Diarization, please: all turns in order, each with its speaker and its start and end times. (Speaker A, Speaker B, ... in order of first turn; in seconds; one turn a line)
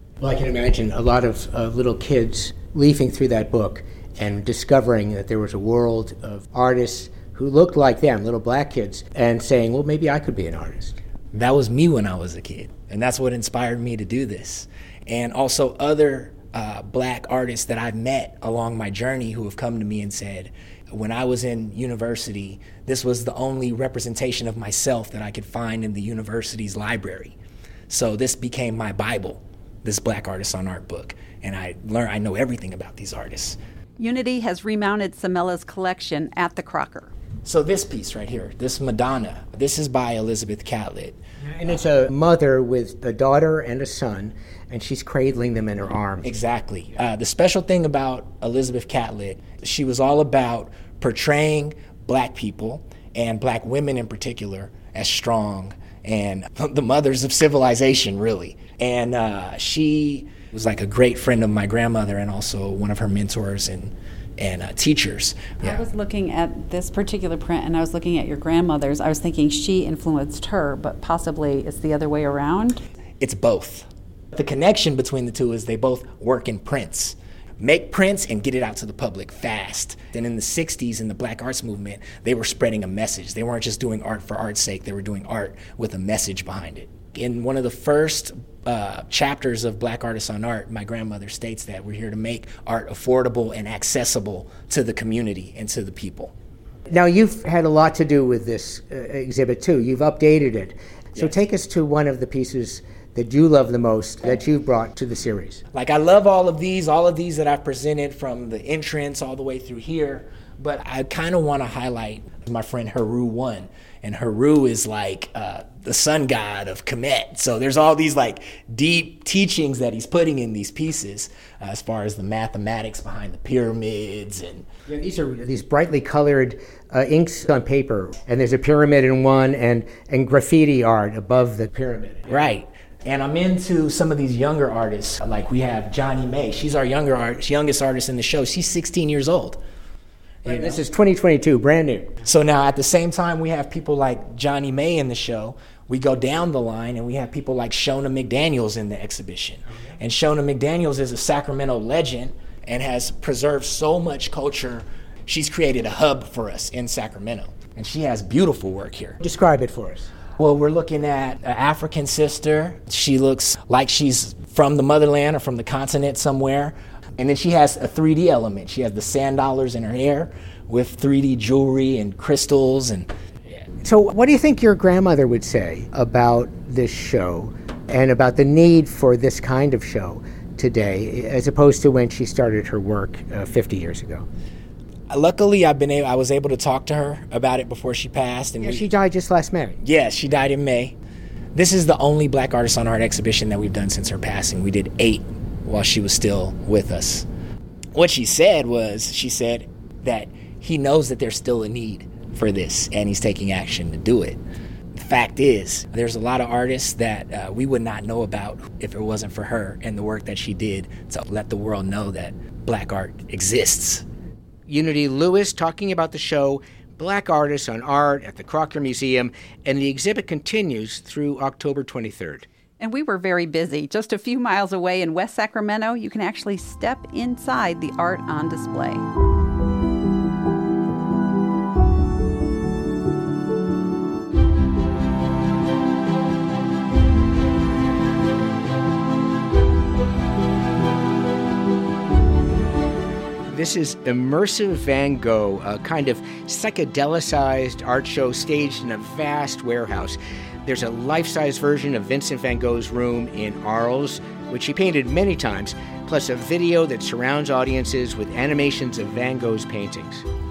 Speaker A: 0.2-11.0
Speaker B: 11.3-27.4
Speaker B: 27.9-33.6
Speaker C: 34.0-37.1
Speaker B: 37.5-41.2
Speaker A: 41.5-46.3
Speaker B: 46.2-65.8
Speaker C: 65.6-72.8
Speaker B: 73.2-96.3
Speaker A: 96.9-105.6
Speaker B: 105.7-124.7
Speaker A: 124.9-132.4
Speaker B: 132.3-139.6
Speaker B: 140.4-140.8
Speaker A: 140.4-142.1
Speaker B: 142.2-159.2
Speaker A: 159.2-160.1
Speaker B: 160.4-173.6
Speaker A: 173.8-184.3
Speaker B: 185.1-188.9
Speaker A: 188.6-189.8
Speaker B: 189.8-191.0
Speaker B: 191.5-197.3
Speaker B: 197.9-204.4
Speaker B: 204.9-214.1
Speaker A: 214.7-222.5
Speaker C: 222.8-229.0
Speaker A: 243.5-260.2